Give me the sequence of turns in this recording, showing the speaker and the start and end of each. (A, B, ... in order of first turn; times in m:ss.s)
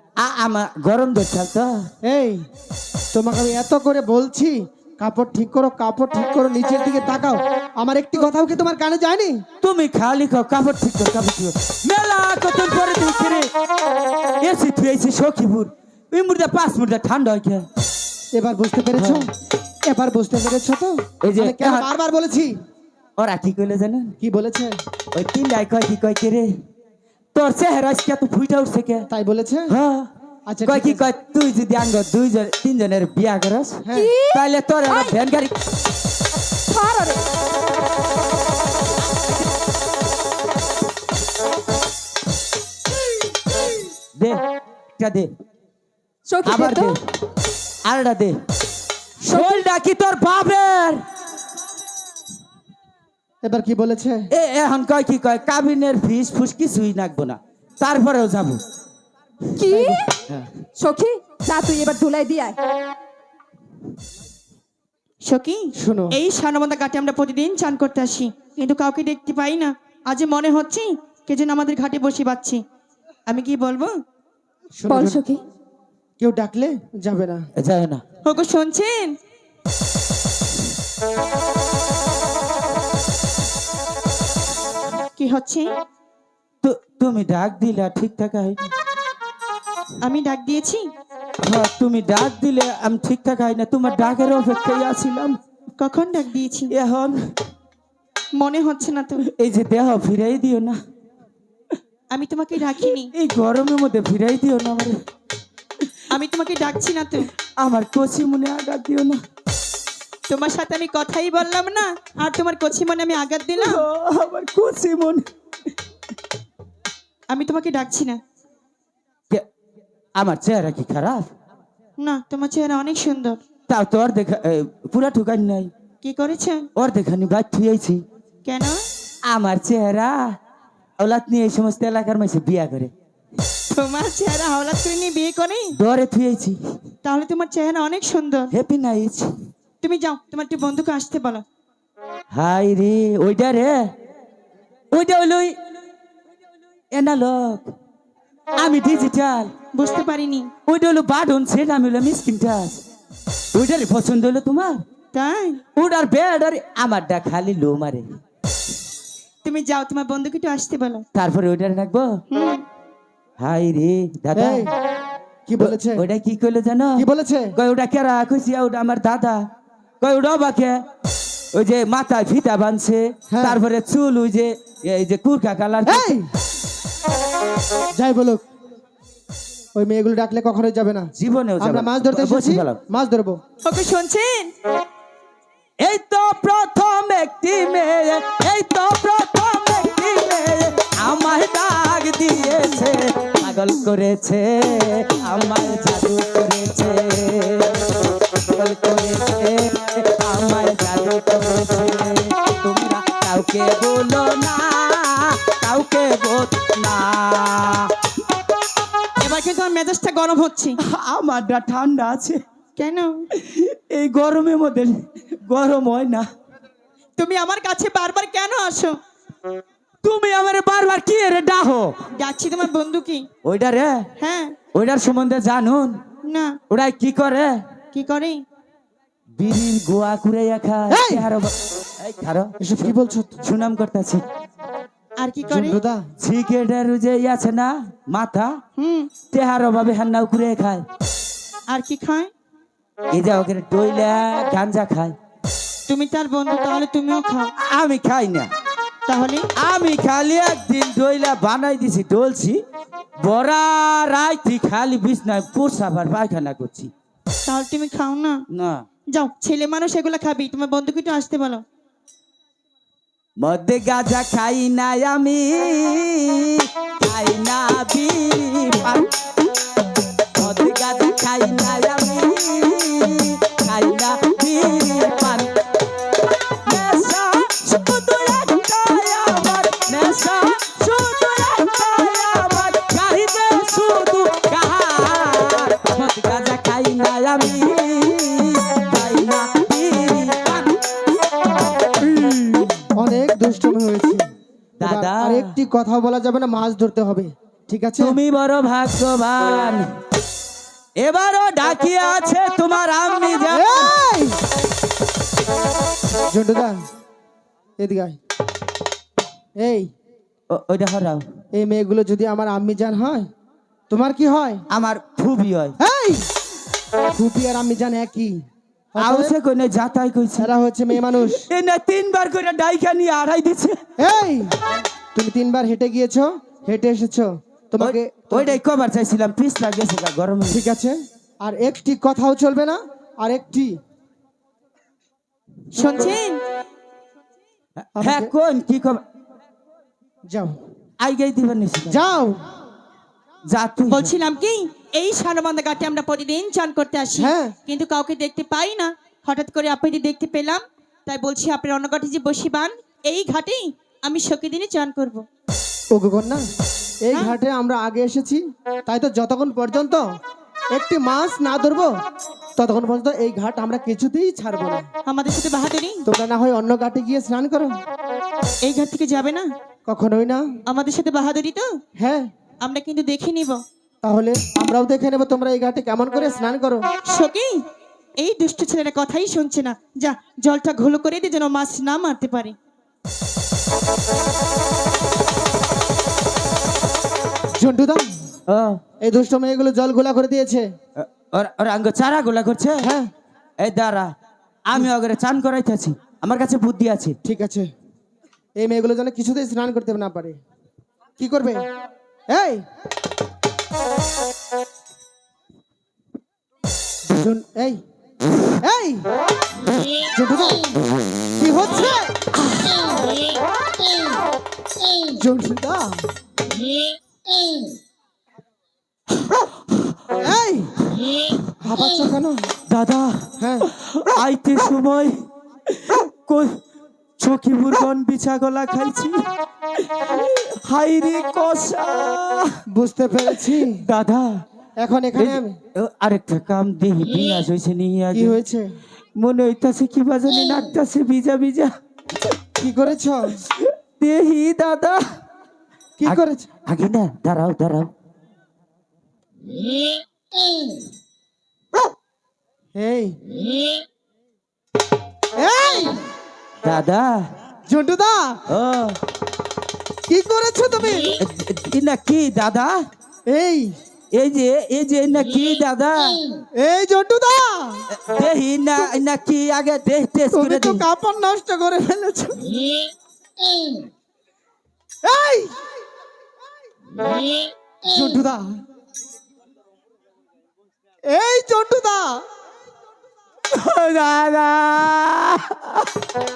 0:00.2-0:01.9 A
0:02.0-0:02.4 B
0:03.1-0:09.4 B
0:09.6-0:13.5 A
0:14.4-0:17.6 A
0:18.3-0:19.3 B
0:19.0-0:19.2 A
0:19.8-0:22.6 B
0:21.2-0:21.9 A
0:23.2-0:24.2 A
0:24.2-0:24.8 B
0:25.1-0:26.5 A
0:27.3-0:29.1 A
0:29.1-0:29.7 B
0:29.7-0:30.1 A
0:30.5-0:31.1 B
0:30.6-0:35.5 A
0:33.8-0:34.1 B
0:33.9-0:35.2 C
0:36.7-0:37.2 C
0:44.2-0:44.4 A
0:45.0-0:45.3 A
0:46.3-0:46.9 C
0:46.4-0:47.0 A
0:47.8-0:48.4 A
0:49.2-0:49.6 C
0:49.3-0:51.0 A
0:53.4-0:54.3 B
0:54.3-0:58.6 A
0:59.6-1:00.1 C
0:59.6-1:00.0 B
1:00.8-1:02.6 C
1:05.2-1:12.6 D
1:05.8-1:06.2 B
1:13.3-1:13.9 D
1:14.8-1:15.2 B
1:14.9-1:15.4 C
1:16.2-1:17.4 B
1:17.6-1:18.0 A
1:18.2-1:19.1 D
1:25.2-1:25.7 D
1:26.6-1:28.7 A
1:30.0-1:30.9 D
1:31.4-1:35.4 A
1:35.8-1:36.7 D
1:36.7-1:37.3 A
1:38.3-1:39.2 D
1:39.2-1:40.8 A
1:42.1-1:43.1 D
1:43.0-1:45.0 A
1:46.1-1:47.3 D
1:47.6-1:49.2 A
1:50.3-1:53.8 D
1:53.6-1:55.2 A
1:57.3-1:58.2 D
2:00.2-2:01.3 A
2:02.0-2:03.4 D
2:03.7-2:05.7 A
2:06.0-2:06.6 D
2:06.8-2:08.0 A
2:08.4-2:08.8 D
2:09.3-2:10.4 A
2:11.0-2:12.9 A
2:13.7-2:15.8 D
2:15.7-2:16.6 A
2:17.0-2:18.5 D
2:18.5-2:19.3 A
2:19.8-2:21.4 D
2:22.3-2:23.9 A
2:24.9-2:25.6 A
2:26.9-2:27.7 A
2:28.6-2:29.5 A
2:29.7-2:30.5 D
2:30.7-2:32.8 A
2:33.5-2:34.8 A
2:35.1-2:35.6 D
2:35.8-2:38.2 A
2:39.4-2:41.0 D
2:41.1-2:42.2 A
2:42.3-2:42.6 D
2:43.4-2:44.7 A
2:44.3-2:44.7 B
2:45.5-2:46.0 B
2:45.6-2:49.4 A
2:47.0-2:47.5 B
2:50.0-2:50.8 A
2:51.5-2:56.1 A
2:53.3-2:53.6 B
2:55.8-2:56.3 B
2:57.9-2:58.4 B
2:59.7-3:03.4 B
3:01.2-3:02.8 A
3:03.6-3:04.5 D
3:05.8-3:27.9 A
3:29.2-3:30.8 D
3:30.8-3:32.4 A
3:32.8-3:33.2 D
3:33.3-3:36.3 A
3:37.2-3:39.0 D
3:40.0-3:42.0 A
3:42.1-3:43.3 D
3:43.4-3:44.1 A
3:44.2-3:44.6 D
3:44.7-3:46.0 A
3:46.2-3:46.6 D
3:46.7-3:47.6 A
3:47.9-3:48.4 D
3:49.4-3:52.5 A
3:50.9-3:51.2 B
3:52.6-3:53.4 B
3:53.4-3:54.2 A
3:55.2-3:55.8 D
3:55.5-3:56.1 B
3:56.2-3:58.6 A
3:58.8-3:59.1 D
3:59.3-4:00.8 A
4:01.7-4:02.3 D
4:03.1-4:05.2 A
4:05.9-4:07.5 D
4:07.6-4:08.5 A
4:09.1-4:09.5 D
4:09.6-4:12.6 A
4:13.2-4:16.9 A
4:17.5-4:18.4 D
4:18.5-4:18.8 A
4:19.1-4:21.6 D
4:23.4-4:29.1 A
4:30.4-4:35.5 A
4:36.6-4:50.8 A
4:52.0-4:52.7 A
4:52.9-4:54.3 B
4:54.8-4:55.6 A
4:54.8-4:58.2 B
4:58.0-4:59.9 A
5:01.0-5:03.9 A
5:03.5-5:04.4 B
5:06.3-5:06.8 B
5:07.8-5:08.2 B
5:09.6-5:09.9 B
5:10.5-5:11.2 A
5:11.5-5:13.3 B
5:13.9-5:14.6 B
5:14.7-5:15.8 A
5:15.8-5:16.3 B
5:17.1-5:18.4 B
5:18.9-5:19.3 B
5:19.0-5:20.5 A
5:20.4-5:21.5 B
5:21.2-5:23.8 A
5:24.0-5:24.6 B
5:25.1-5:28.6 B
5:27.8-5:30.6 A
5:30.5-5:33.8 B
5:35.7-5:36.4 D
5:37.8-5:39.0 A
5:38.0-5:38.3 B
5:40.3-5:40.6 B
5:41.0-5:42.0 A
5:41.9-5:42.4 B
5:43.5-5:44.1 A
5:43.9-5:55.2 D
5:47.2-5:47.5 B
5:55.9-5:56.4 B
5:57.0-6:00.0 B
6:00.7-6:01.9 B
6:02.6-6:04.9 B
6:05.0-6:06.0 D
6:06.0-6:07.8 B
6:08.6-6:09.5 D
6:09.9-6:10.5 B
6:10.7-6:11.8 D
6:12.0-6:12.3 B
6:12.6-6:13.6 D
6:14.0-6:16.8 B
6:17.1-6:17.6 D
6:18.2-6:22.6 D
6:27.5-6:28.1 B
6:28.5-6:28.8 A
6:29.0-6:30.6 B
6:31.0-6:32.9 A
6:32.8-6:33.1 B
6:33.6-6:34.1 A
6:34.7-6:37.2 A
6:37.2-6:37.7 B
6:38.6-6:40.4 B
6:41.2-6:41.6 B
6:42.3-6:42.6 B
6:47.1-6:47.8 B
6:48.6-6:49.1 B
6:50.1-6:50.6 B
6:51.4-6:52.8 B
6:55.2-6:56.1 B
7:00.2-7:00.8 B
7:01.6-7:02.5 B
7:02.7-7:06.6 A
7:03.4-7:03.7 B
7:07.2-7:09.2 A
7:09.8-7:12.6 A
7:12.7-7:13.8 B
7:13.6-7:14.4 A
7:14.8-7:15.6 B
7:15.2-7:18.4 A
7:18.1-7:18.8 B
7:19.2-7:21.7 A
7:22.6-7:23.4 B
7:23.4-7:25.0 A
7:26.0-7:26.5 B
7:26.0-7:27.9 A
7:32.7-7:33.2 B
7:35.3-7:36.0 B
7:36.6-7:37.3 A
7:37.7-7:38.4 B
7:38.5-7:39.0 A
7:40.1-7:41.2 B
7:41.2-7:42.8 A
7:43.3-7:43.7 B
7:44.1-7:46.2 A
7:46.6-7:47.8 B
7:47.9-7:50.8 A
7:50.3-7:52.6 B
7:55.0-7:55.6 B
7:57.8-7:58.6 B
8:01.1-8:02.2 B
8:03.5-8:05.9 A